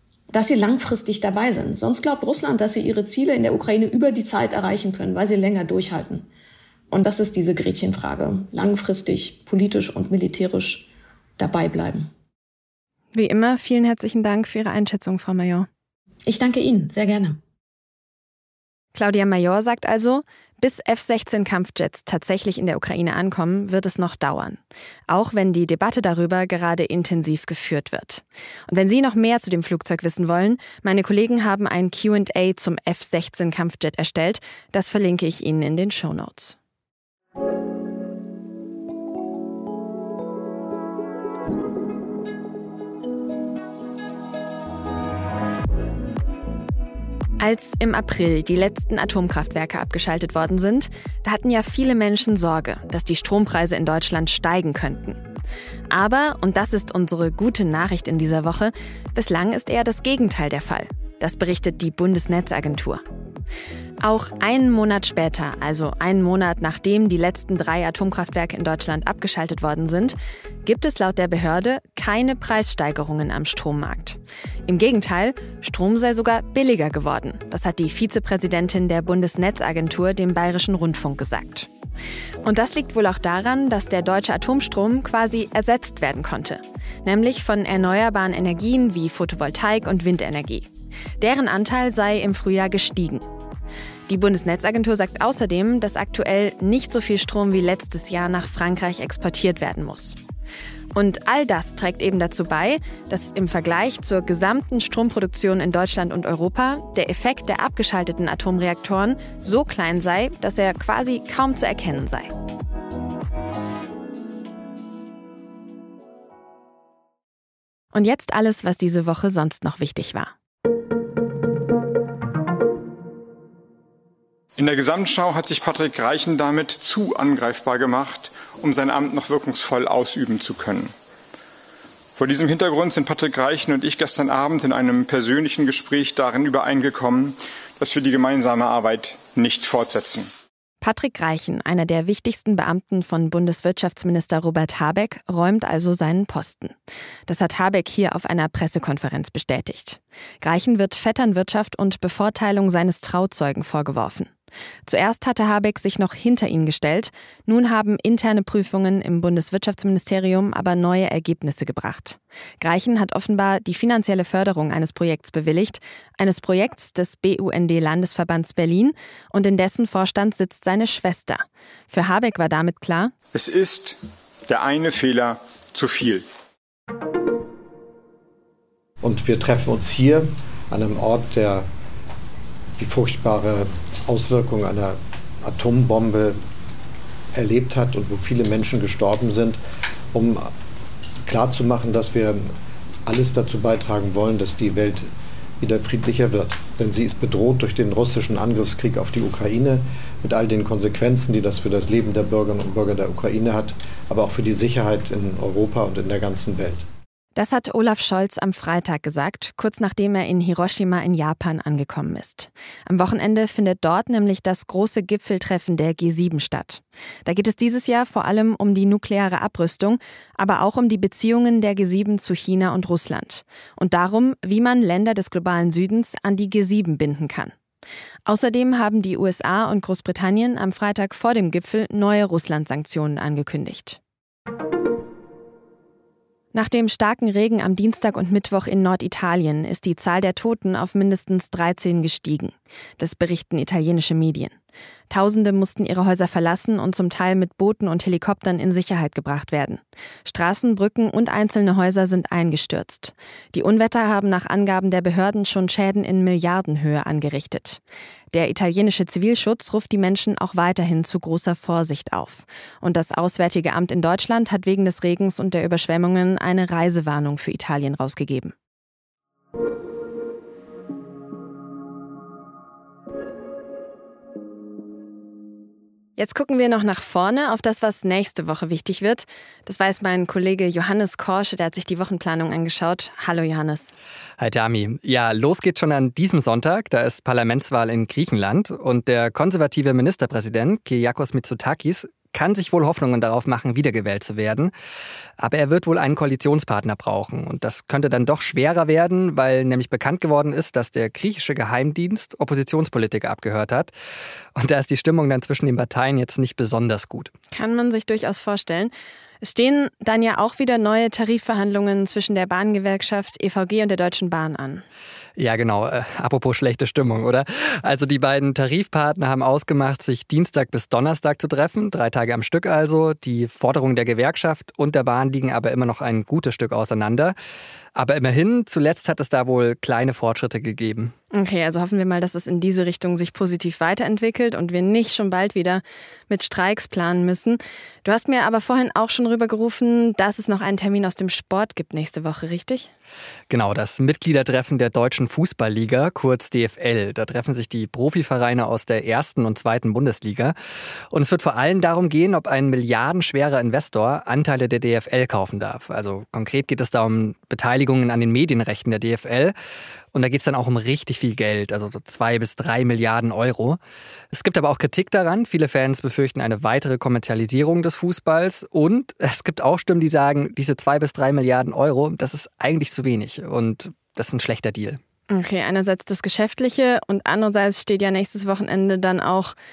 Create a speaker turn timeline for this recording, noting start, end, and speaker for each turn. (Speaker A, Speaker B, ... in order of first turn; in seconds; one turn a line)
Speaker A: 0.3-6.3
Speaker A: 6.9-12.1
Speaker B: 13.1-15.7
Speaker A: 16.3-17.4
Speaker B: 18.9-36.6
Speaker B: 47.4-55.2
Speaker B: 55.9-63.0
Speaker B: 64.0-81.7
Speaker B: 82.4-93.2
Speaker B: 94.1-100.2
Speaker B: 100.9-112.3
Speaker B: 117.9-120.3
Speaker C: 124.6-130.9
Speaker C: 132.2-140.3
Speaker B: 140.8-146.8
Speaker B: 147.3-154.3
Speaker B: 154.9-173.1
Speaker C: 173.3-176.2
Speaker D: 179.0-181.7
Speaker D: 182.8-186.4
Speaker D: 187.3-189.6
Speaker D: 190.1-190.5
Speaker D: 191.2-192.5
Speaker D: 193.1-195.1
Speaker D: 195.6-206.8
Speaker B: 207.4-227.5
Speaker B: 228.3-234.0
Speaker B: 236.5-244.6
Speaker B: 245.1-257.8
Speaker B: 258.3-268.6
Speaker B: 276.2-283.9
Speaker E: 284.4-294.7
Speaker E: 295.4-303.9
Speaker E: 304.6-307.3
Speaker B: 307.5-314.8
Speaker E: 315.4-327.4
Speaker E: 327.9-331.1
Speaker B: 331.3-342.9
Speaker E: 343.5-350.6
Speaker E: 351.1-359.5
Speaker E: 360.1-363.8
Speaker E: 364.3-375.0
Speaker B: 375.3-379.5